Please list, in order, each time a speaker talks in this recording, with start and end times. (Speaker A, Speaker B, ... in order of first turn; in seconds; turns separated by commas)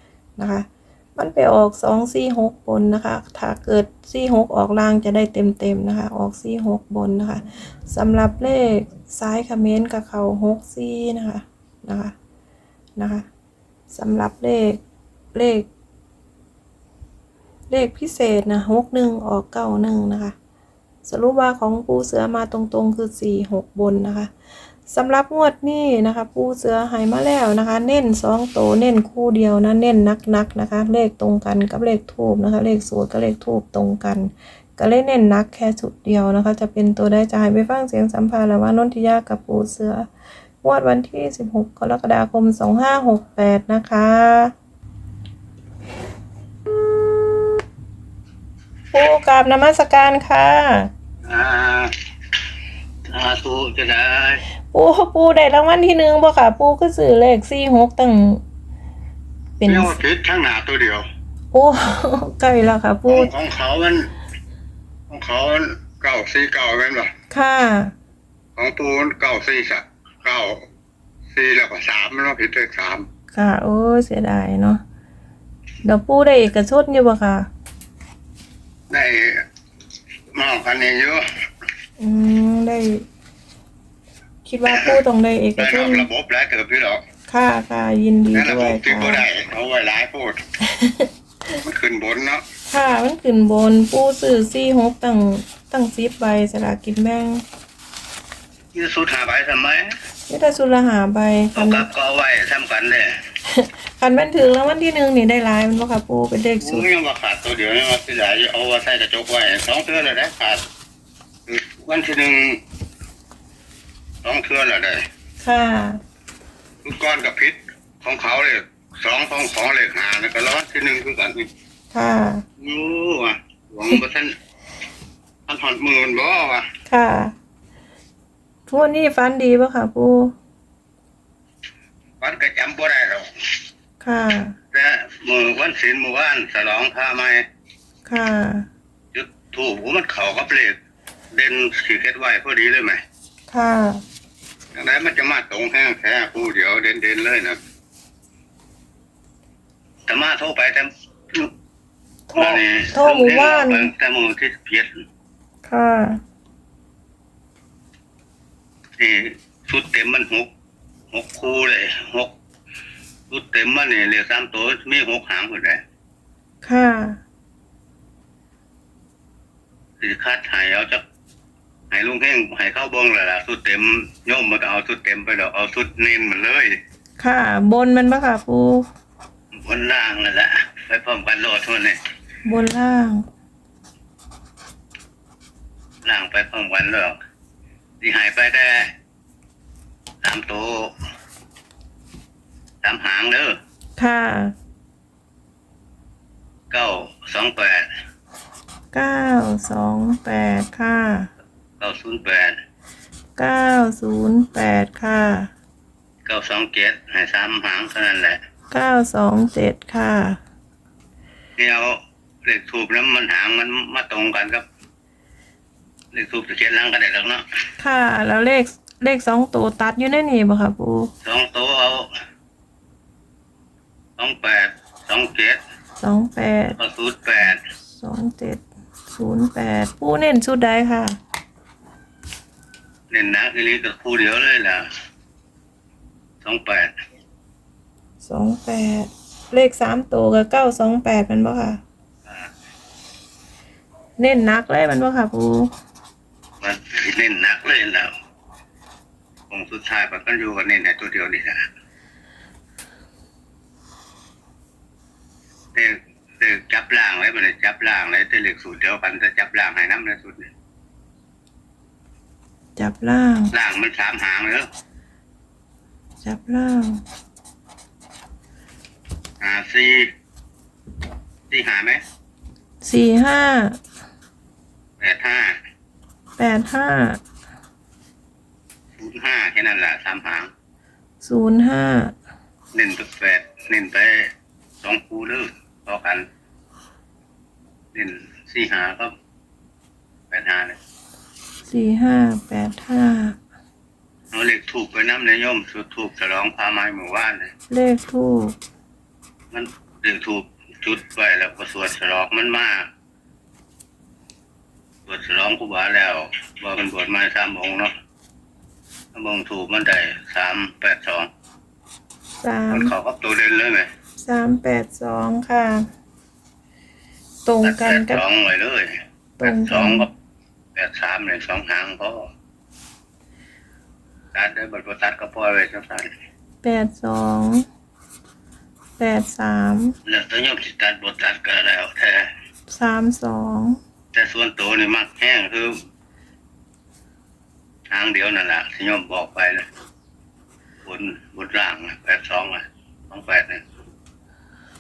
Speaker A: 0.4-12.2, Speaker A: 13.0-13.3, Speaker A: 13.9-14.8, Speaker A: 15.3-15.7, Speaker A: 17.7-20.3, Speaker A: 21.1-24.3, Speaker A: 24.9-40.1, Speaker A: 40.6-44.5, Speaker A: 48.9-50.9, Speaker B: 51.3-51.9, Speaker B: 53.1-54.4, Speaker A: 54.7-58.4, Speaker A: 59.6-60.0, Speaker B: 59.7-61.1, Speaker A: 61.5-63.3, Speaker B: 63.1-64.1, Speaker B: 65.1-67.1, Speaker A: 67.3-67.9, Speaker B: 68.6-70.6, Speaker B: 71.3-73.1, Speaker A: 73.3-74.8, Speaker A: 75.8-77.5, Speaker B: 78.9-79.4, Speaker B: 80.3-81.2, Speaker A: 82.0-83.0, Speaker A: 84.5-86.1, Speaker B: 84.7-85.0, Speaker B: 85.6-87.0, Speaker A: 87.3-89.2, Speaker B: 88.3-90.4, Speaker A: 90.6-91.1, Speaker B: 91.7-92.4, Speaker A: 92.7-97.4, Speaker B: 98.7-99.9, Speaker A: 100.3-101.9, Speaker B: 101.5-103.2, Speaker A: 103.5-106.9, Speaker B: 106.6-110.6, Speaker B: 111.5-112.6, Speaker B: 114.2-115.0, Speaker A: 115.4-116.0, Speaker B: 116.8-121.5, Speaker A: 121.9-122.5, Speaker B: 122.6-124.4, Speaker B: 125.5-126.7, Speaker A: 126.9-127.3, Speaker A: 128.7-130.3, Speaker B: 132.2-133.3, Speaker A: 134.0-134.6, Speaker B: 134.7-137.4, Speaker A: 138.1-138.7, Speaker B: 139.1-140.8, Speaker B: 141.3-143.0, Speaker A: 143.5-144.0, Speaker B: 144.8-147.6, Speaker B: 150.1-151.5, Speaker A: 152.3-153.9, Speaker B: 152.3-155.0, Speaker A: 155.7-156.2, Speaker B: 159.0-160.5, Speaker B: 161.1-162.3, Speaker B: 163.3-165.8, Speaker A: 166.6-167.2, Speaker B: 170.0-171.0, Speaker B: 171.9-176.8, Speaker A: 177.2-178.8, Speaker B: 179.6-182.0, Speaker A: 182.4-183.3, Speaker B: 186.0-187.2, Speaker B: 188.0-188.9, Speaker B: 190.2-190.9, Speaker B: 192.8-193.6, Speaker A: 194.0-194.5, Speaker B: 196.7-197.9, Speaker A: 198.9-201.3, Speaker B: 201.8-202.6, Speaker A: 203.4-205.5, Speaker B: 206.2-208.4, Speaker A: 208.7-210.4, Speaker B: 211.6-214.7, Speaker B: 216.1-217.4, Speaker A: 217.8-221.1, Speaker B: 221.2-222.1, Speaker B: 224.2-225.6, Speaker A: 226.0-226.8, Speaker B: 226.8-227.6, Speaker A: 227.9-231.2, Speaker B: 233.1-234.8, Speaker B: 236.4-236.9, Speaker A: 238.2-241.8, Speaker A: 244.2-245.7, Speaker B: 246.6-248.1, Speaker B: 249.5-251.7, Speaker B: 255.7-260.5, Speaker A: 262.8-263.5, Speaker B: 263.5-264.7, Speaker A: 266.2-267.0, Speaker B: 269.4-270.1, Speaker B: 271.5-272.0, Speaker A: 272.8-273.8, Speaker B: 275.0-275.5, Speaker A: 276.4-277.2, Speaker B: 279.0-280.5, Speaker A: 281.2-282.1, Speaker B: 282.7-284.3, Speaker B: 284.8-286.2, Speaker B: 287.9-289.1, Speaker B: 290.3-290.8, Speaker A: 291.6-293.4, Speaker B: 294.3-297.5, Speaker A: 297.7-298.6, Speaker B: 299.5-302.9, Speaker B: 305.1-307.9, Speaker B: 309.1-311.3, Speaker A: 312.4-312.9, Speaker B: 312.7-313.9, Speaker A: 314.2-315.9, Speaker A: 317.4-318.2, Speaker B: 317.6-320.1, Speaker A: 319.4-320.1, Speaker B: 320.8-322.3, Speaker B: 324.3-326.1, Speaker A: 326.6-327.7, Speaker A: 329.0-329.9, Speaker B: 330.1-332.3, Speaker A: 332.7-333.8, Speaker B: 334.1-335.8, Speaker B: 337.9-339.6, Speaker B: 340.8-343.6